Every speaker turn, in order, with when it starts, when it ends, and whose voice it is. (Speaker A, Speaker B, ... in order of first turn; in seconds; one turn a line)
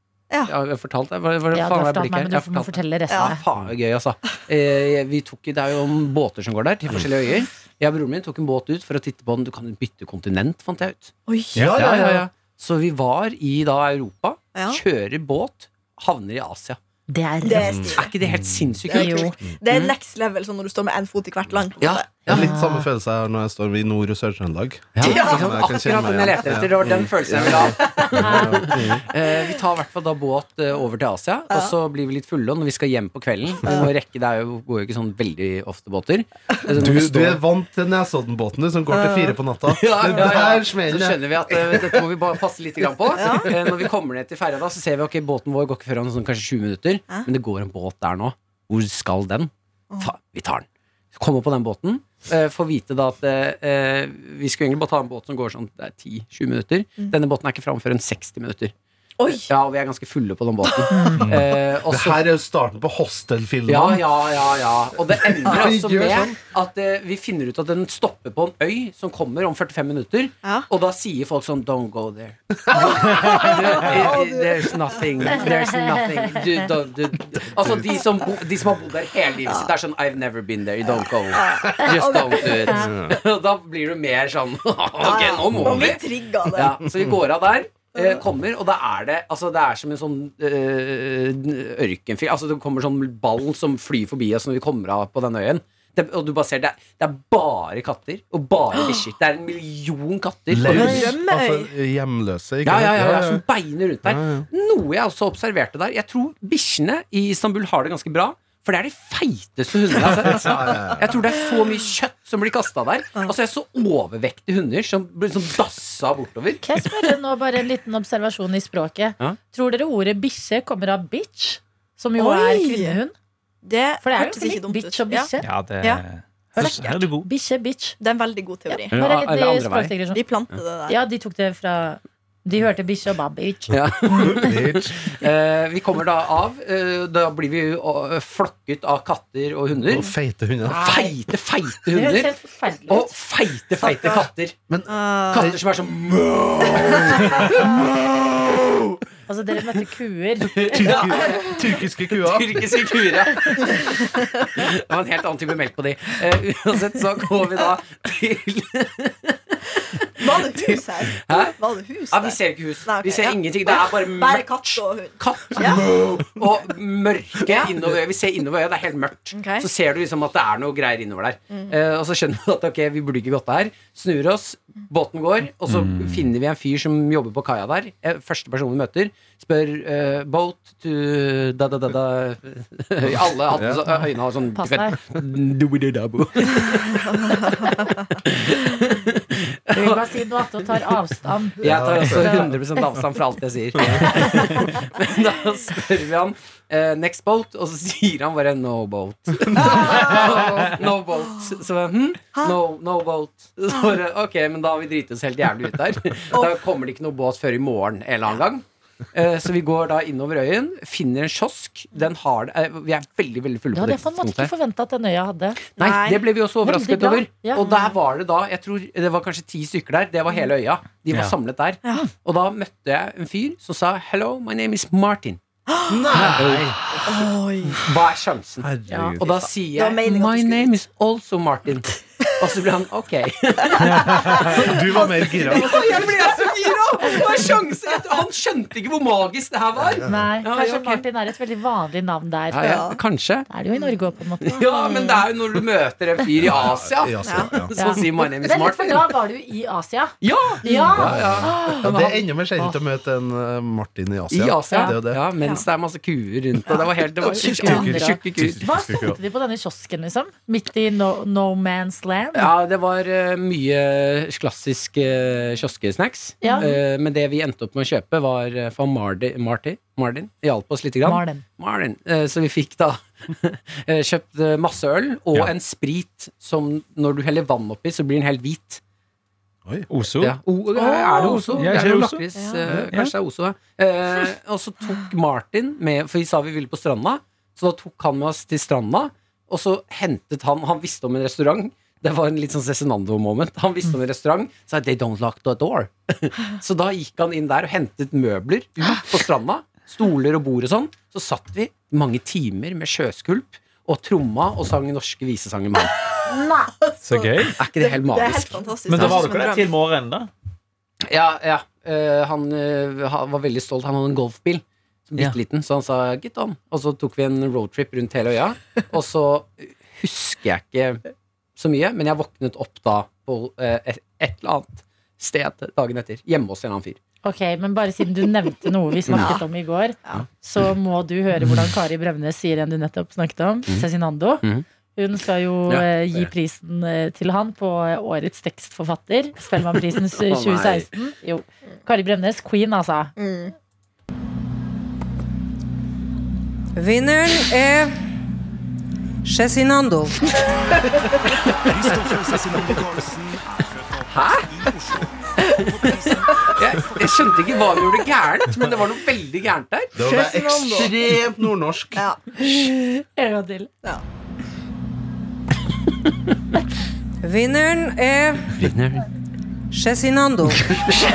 Speaker A: 0.5-16.8
Speaker B: 1.5-3.4
Speaker C: 3.1-3.4
Speaker C: 11.3-11.7
Speaker D: 11.6-11.9
Speaker E: 11.6-12.2
Speaker C: 14.5-14.8
Speaker B: 17.1-17.9
Speaker C: 17.4-18.1
Speaker E: 17.6-18.3
Speaker A: 17.9-19.9
Speaker C: 18.9-22.1
Speaker B: 18.9-19.4
Speaker A: 21.8-22.6
Speaker E: 22.3-29.1
Speaker B: 22.3-22.9
Speaker A: 25.0-37.4
Speaker C: 25.0-25.8
Speaker C: 27.8-28.4
Speaker B: 28.2-28.7
Speaker C: 29.3-29.6
Speaker C: 33.6-33.9
Speaker E: 36.7-42.1
Speaker C: 38.9-39.4
Speaker A: 39.7-58.7
Speaker C: 40.1-40.5
Speaker C: 43.1-43.5
Speaker C: 59.2-59.5
Speaker A: 59.4-62.2
Speaker C: 60.8-61.1
Speaker B: 60.9-61.2
Speaker E: 61.3-64.1
Speaker A: 63.7-101.2
Speaker E: 65.4-66.3
Speaker C: 70.4-70.7
Speaker E: 72.7-73.0
Speaker C: 72.7-75.5
Speaker B: 75.4-76.5
Speaker E: 77.5-78.0
Speaker C: 81.3-82.9
Speaker B: 82.6-82.9
Speaker E: 82.9-83.2
Speaker C: 85.0-86.8
Speaker E: 85.5-86.0
Speaker C: 88.0-88.2
Speaker E: 100.5-103.4
Speaker C: 100.7-101.7
Speaker A: 102.6-116.7
Speaker E: 104.0-104.5
Speaker E: 110.2-111.1
Speaker B: 116.6-123.1
Speaker C: 122.2-123.0
Speaker C: 123.6-125.3
Speaker B: 124.0-125.5
Speaker D: 125.4-127.3
Speaker B: 126.6-128.0
Speaker C: 126.6-126.9
Speaker C: 128.0-129.0
Speaker B: 128.7-130.2
Speaker A: 128.9-130.0
Speaker C: 130.1-131.0
Speaker B: 130.9-134.6
Speaker A: 133.7-140.1
Speaker E: 134.4-135.0
Speaker E: 139.8-140.9
Speaker B: 140.7-141.2
Speaker A: 140.7-142.3
Speaker B: 141.9-143.2
Speaker A: 142.9-144.6
Speaker C: 143.8-144.2
Speaker E: 144.7-145.6
Speaker C: 144.9-145.6
Speaker A: 145.3-149.0
Speaker B: 149.3-151.0
Speaker A: 150.5-159.4
Speaker E: 150.7-152.9
Speaker C: 153.6-154.5
Speaker C: 160.2-165.9
Speaker A: 160.3-161.5
Speaker A: 162.1-187.7
Speaker C: 167.4-167.7
Speaker C: 169.3-169.7
Speaker C: 171.5-171.8
Speaker D: 175.7-176.3
Speaker E: 183.1-183.9
Speaker B: 184.6-185.0
Speaker C: 187.1-188.0
Speaker A: 188.2-190.1
Speaker B: 189.7-192.5
Speaker E: 191.6-192.6
Speaker A: 191.6-214.5
Speaker E: 193.8-194.1
Speaker C: 199.6-200.4
Speaker E: 199.6-200.6
Speaker C: 206.3-206.6
Speaker B: 213.7-215.6
Speaker A: 215.8-225.4
Speaker C: 215.8-216.3
Speaker B: 216.6-217.7
Speaker D: 221.1-221.4
Speaker C: 225.7-226.2
Speaker E: 225.9-226.5
Speaker D: 226.1-226.8
Speaker A: 226.3-227.1
Speaker C: 227.1-227.9
Speaker A: 227.7-241.0
Speaker E: 228.6-229.4
Speaker B: 228.9-229.2
Speaker C: 229.2-230.7
Speaker C: 233.7-238.0
Speaker D: 234.0-234.5
Speaker E: 234.5-236.0
Speaker E: 239.8-240.3
Speaker B: 240.1-242.9
Speaker A: 242.5-243.5
Speaker C: 242.7-243.0
Speaker B: 243.5-245.1
Speaker A: 244.4-249.1
Speaker C: 244.7-245.3
Speaker E: 246.4-247.7
Speaker C: 247.2-247.5
Speaker B: 247.8-252.8
Speaker A: 250.2-252.0
Speaker C: 250.7-251.0
Speaker E: 250.9-255.2
Speaker A: 254.3-258.7
Speaker C: 255.4-255.7
Speaker B: 257.2-262.5
Speaker E: 257.6-259.2
Speaker A: 262.3-278.8
Speaker B: 266.4-266.7
Speaker C: 266.4-266.8
Speaker B: 271.0-271.4
Speaker D: 279.9-280.4
Speaker A: 280.2-305.9
Speaker C: 280.9-281.6
Speaker D: 281.2-282.2
Speaker C: 282.4-282.7
Speaker B: 306.3-306.7
Speaker C: 306.8-309.7
Speaker D: 307.0-307.6
Speaker A: 307.6-309.4
Speaker D: 308.9-310.3
Speaker A: 311.1-321.0
Speaker A: 321.6-327.0
Speaker B: 327.2-334.4
Speaker A: 329.1-329.4
Speaker C: 329.1-329.4
Speaker B: 335.0-343.1
Speaker A: 335.7-336.3
Speaker A: 340.0-340.9
Speaker C: 343.2-343.5
Speaker F: 346.8-348.0
Speaker F: 349.2-350.2
Speaker G: 351.7-357.4
Speaker A: 354.1-354.5
Speaker A: 356.5-359.9
Speaker E: 359.9-362.0
Speaker C: 360.0-361.0
Speaker C: 362.0-362.7
Speaker B: 362.4-363.7
Speaker F: 367.2-368.7
Speaker A: 368.6-369.1
Speaker F: 369.7-370.7